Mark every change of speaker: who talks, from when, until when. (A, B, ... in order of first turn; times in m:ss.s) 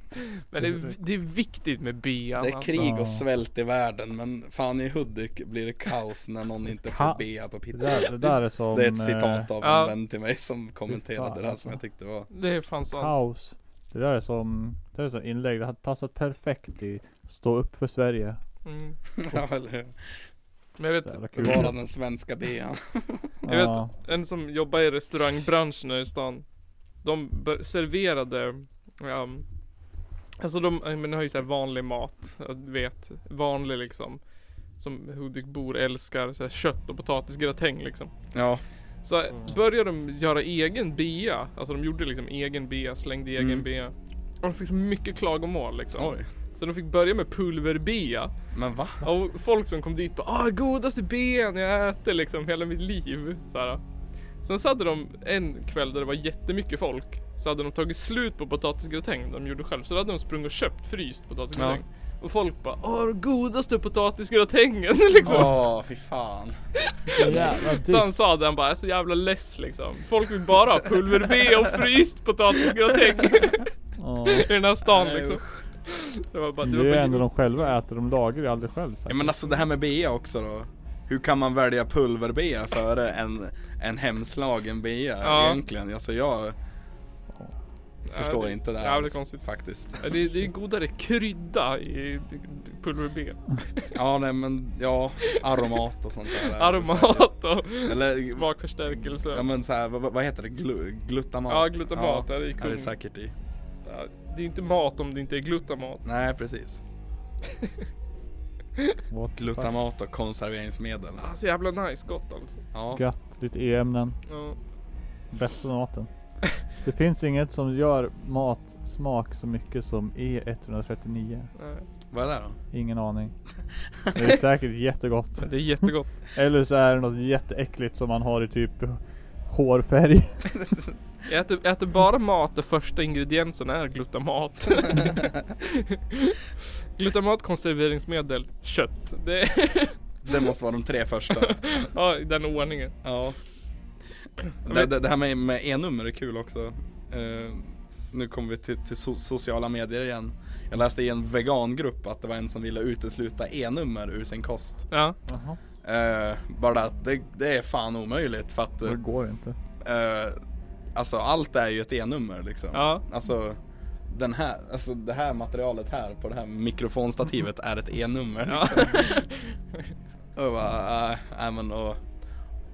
0:00.4-0:02.8 A
0:00.6-0:00.9 B
0:02.4-0:08.1 C
0:02.7-0:03.2 B
0:06.8-0:09.5 B
0:08.7-0:12.3 C
0:09.6-0:09.9 A
0:10.9-0:11.8 B
0:12.3-0:13.1 A
0:12.9-0:18.4 B
0:18.6-0:19.0 A
0:19.2-0:20.2 C
0:20.8-0:21.3 A
0:21.1-0:21.7 B
0:21.4-0:23.3 C
0:23.4-0:23.9 B
0:23.5-0:26.4 A
0:27.0-0:29.4 A
0:30.4-0:34.2 A
0:34.8-0:38.1 A
0:38.3-0:38.6 C
0:39.0-0:48.3 A
0:43.4-0:43.7 C
0:45.9-0:46.3 C
0:48.5-0:49.0 C
0:49.0-0:53.8 A
0:54.4-1:05.6 A
1:01.6-1:01.8 C
1:05.2-1:06.6 C
1:06.9-1:13.7 A
1:07.2-1:08.2 B
1:07.2-1:07.6 C
1:11.3-1:11.5 C
1:14.0-1:14.5 B
1:14.2-1:17.7 A
1:14.8-1:15.6 C
1:16.6-1:19.6 B
1:19.1-1:26.6 C
1:25.2-1:25.6 A
1:28.0-1:29.4 A
1:28.1-1:30.3 C
1:30.0-1:33.9 A
1:33.9-1:37.3 C
1:36.4-1:39.4 A
1:37.8-1:43.3 C
1:41.5-1:42.9 A
1:43.8-1:46.0 A
1:46.0-1:46.8 C
1:49.1-1:49.7 B
1:49.4-1:51.2 C
1:51.2-1:52.6 A
1:52.7-1:53.0 C
1:52.9-1:54.2 B
1:54.3-1:54.6 A
1:55.3-1:56.1 B
1:56.8-2:01.5 B
2:01.6-2:01.9 A
2:02.1-2:02.6 C
2:02.7-2:03.4 B
2:04.1-2:10.7 B
2:05.4-2:06.1 A
2:10.6-2:10.9 C
2:11.3-2:20.0 A
2:14.9-2:15.4 C
2:20.2-2:21.9 C
2:21.3-2:22.9 A
2:23.0-2:23.4 C
2:24.6-2:34.9 C
2:34.9-2:35.2 A
2:35.3-2:35.6 B
2:35.8-2:39.0 C
2:38.8-2:39.6 B
2:39.8-2:40.4 C
2:40.9-2:49.2 C
2:42.7-2:43.0 A
2:48.5-2:49.6 A
2:50.4-2:52.0 C